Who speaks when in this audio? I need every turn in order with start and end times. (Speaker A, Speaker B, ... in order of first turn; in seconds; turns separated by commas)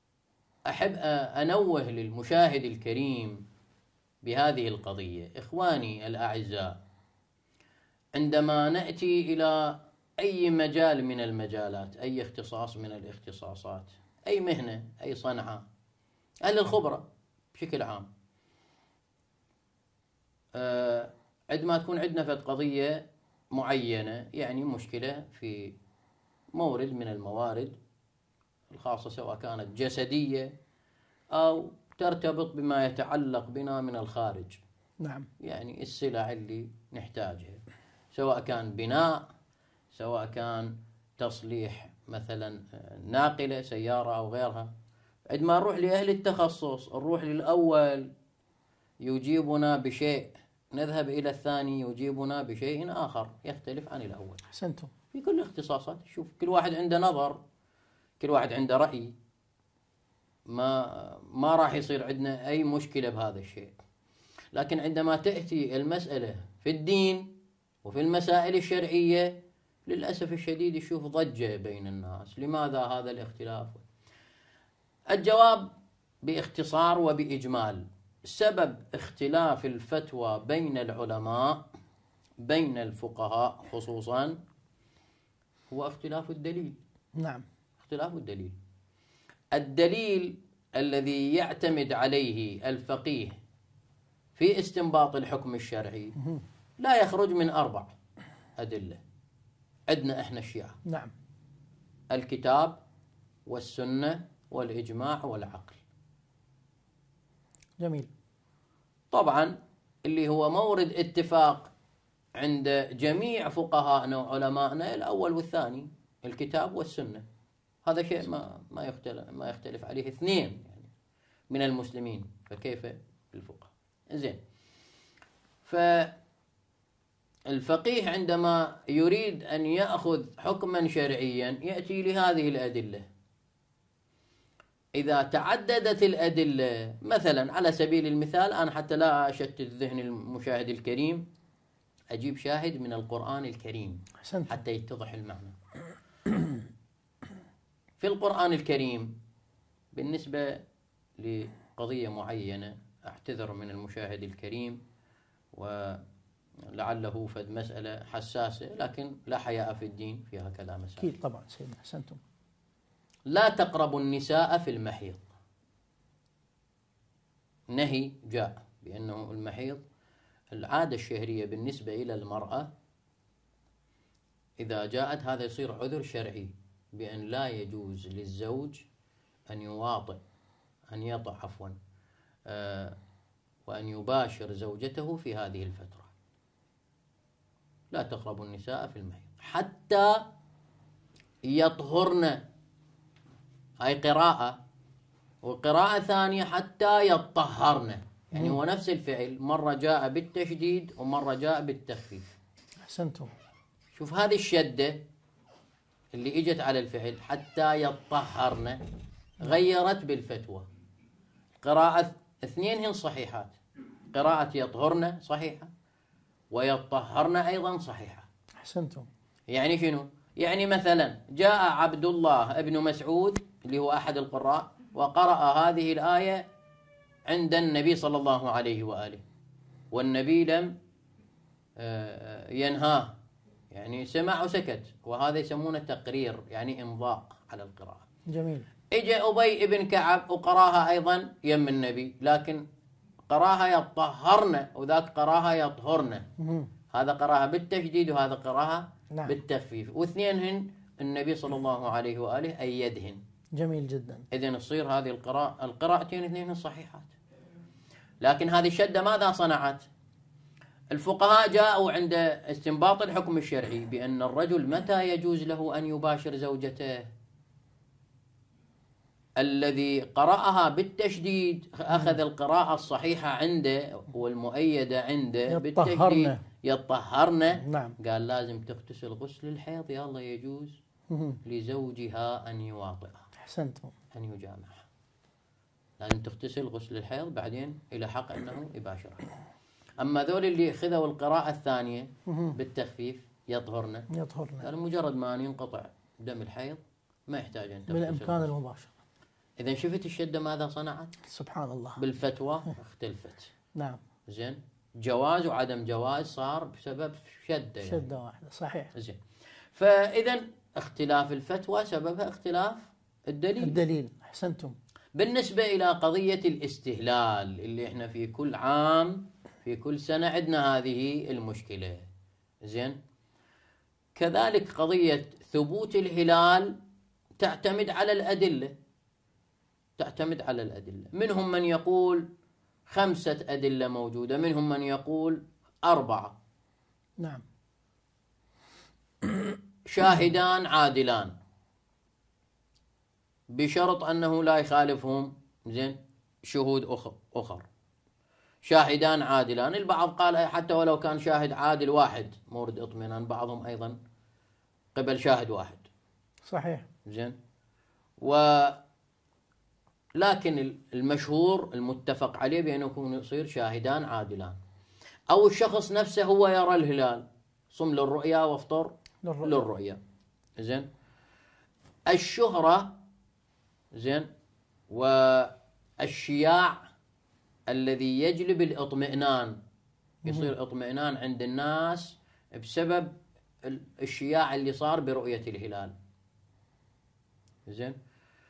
Speaker A: 0.7-3.4, Speaker A: 4.2-6.8, Speaker A: 8.2-15.7, Speaker A: 16.4-18.1, Speaker A: 20.6-25.8, Speaker A: 26.6-27.8, Speaker A: 28.7-30.5, Speaker A: 31.3-34.6, Speaker B: 35.0-35.3, Speaker A: 35.4-37.6, Speaker A: 38.1-39.2, Speaker A: 39.9-44.7, Speaker A: 45.3-48.1, Speaker A: 49.0-54.4, Speaker B: 54.5-54.9, Speaker A: 55.1-57.4, Speaker A: 58.2-59.1, Speaker A: 60.5-63.8, Speaker A: 64.5-67.3, Speaker A: 67.8-69.3, Speaker A: 69.9-73.8, Speaker A: 75.1-75.7, Speaker A: 76.2-81.6, Speaker A: 82.4-84.4, Speaker A: 85.7-86.8, Speaker B: 87.2-87.5, Speaker A: 87.8-88.6, Speaker A: 89.5-93.4, Speaker A: 94.4-96.2, Speaker A: 96.8-97.9, Speaker A: 98.6-99.0, Speaker A: 99.9-100.8, Speaker B: 100.8-101.1, Speaker A: 102.1-102.8, Speaker A: 103.5-105.8, Speaker B: 107.8-108.1, Speaker A: 109.1-111.7, Speaker A: 112.4-117.2, Speaker A: 117.8-120.9, Speaker A: 121.5-124.4, Speaker A: 125.6-126.1, Speaker A: 127.5-133.1, Speaker A: 134.9-141.2, Speaker A: 142.1-145.6, Speaker B: 144.2-144.6, Speaker A: 148.0-149.1, Speaker A: 149.9-150.6, Speaker A: 151.2-154.8, Speaker A: 155.5-156.0, Speaker A: 156.7-161.1, Speaker B: 161.0-162.2, Speaker A: 163.3-165.2, Speaker A: 167.7-169.8, Speaker A: 170.5-172.7, Speaker A: 174.6-178.9, Speaker A: 179.5-180.2, Speaker A: 180.9-181.8, Speaker A: 182.5-183.0, Speaker A: 183.7-186.1, Speaker A: 187.9-190.2, Speaker A: 191.4-192.4, Speaker A: 193.8-194.6, Speaker A: 195.4-202.4, Speaker B: 202.8-203.3, Speaker A: 203.9-205.0, Speaker A: 206.1-208.8, Speaker A: 209.4-210.7, Speaker A: 211.6-213.6, Speaker A: 214.1-215.7, Speaker A: 216.5-218.3, Speaker B: 218.6-219.1, Speaker A: 219.5-226.4, Speaker A: 227.3-229.2, Speaker A: 229.9-230.7, Speaker A: 231.8-233.2, Speaker A: 233.7-238.1, Speaker B: 238.3-238.7, Speaker A: 238.9-242.6, Speaker A: 243.3-246.3, Speaker B: 246.4-246.7, Speaker A: 246.9-253.2, Speaker B: 253.6-254.2, Speaker A: 254.3-257.1, Speaker A: 258.2-259.9, Speaker A: 260.9-267.1, Speaker A: 269.4-280.8, Speaker B: 271.9-272.2, Speaker B: 275.5-276.4, Speaker B: 277.6-277.9, Speaker B: 281.1-281.4, Speaker A: 281.4-283.3, Speaker B: 283.4-283.9, Speaker A: 284.1-284.9, Speaker A: 286.0-289.3, Speaker A: 290.0-294.1, Speaker B: 292.3-292.6, Speaker B: 294.1-294.7, Speaker A: 294.6-298.5, Speaker B: 297.9-298.9, Speaker A: 299.6-301.1, Speaker B: 301.3-302.0, Speaker A: 302.0-303.5, Speaker B: 303.8-304.0, Speaker A: 304.3-308.1, Speaker B: 307.8-308.9, Speaker A: 308.9-309.2, Speaker A: 309.7-313.8, Speaker B: 313.6-314.8, Speaker A: 315.1-322.1, Speaker A: 322.6-323.0, Speaker A: 324.2-326.8, Speaker A: 327.4-328.7, Speaker A: 330.0-332.3, Speaker A: 332.9-336.4, Speaker B: 337.2-337.4, Speaker A: 339.9-341.3, Speaker A: 343.6-347.6, Speaker A: 348.7-354.0, Speaker A: 354.9-355.9, Speaker B: 356.4-356.9, Speaker A: 357.1-357.4, Speaker A: 358.2-358.8, Speaker A: 360.2-364.6, Speaker A: 365.3-368.9, Speaker B: 369.2-369.6, Speaker A: 369.4-370.0, Speaker A: 370.6-370.9, Speaker A: 372.1-372.9, Speaker A: 373.9-374.3, Speaker A: 374.9-376.9, Speaker A: 377.7-379.6, Speaker A: 380.2-383.1, Speaker A: 383.6-385.9, Speaker A: 387.7-388.0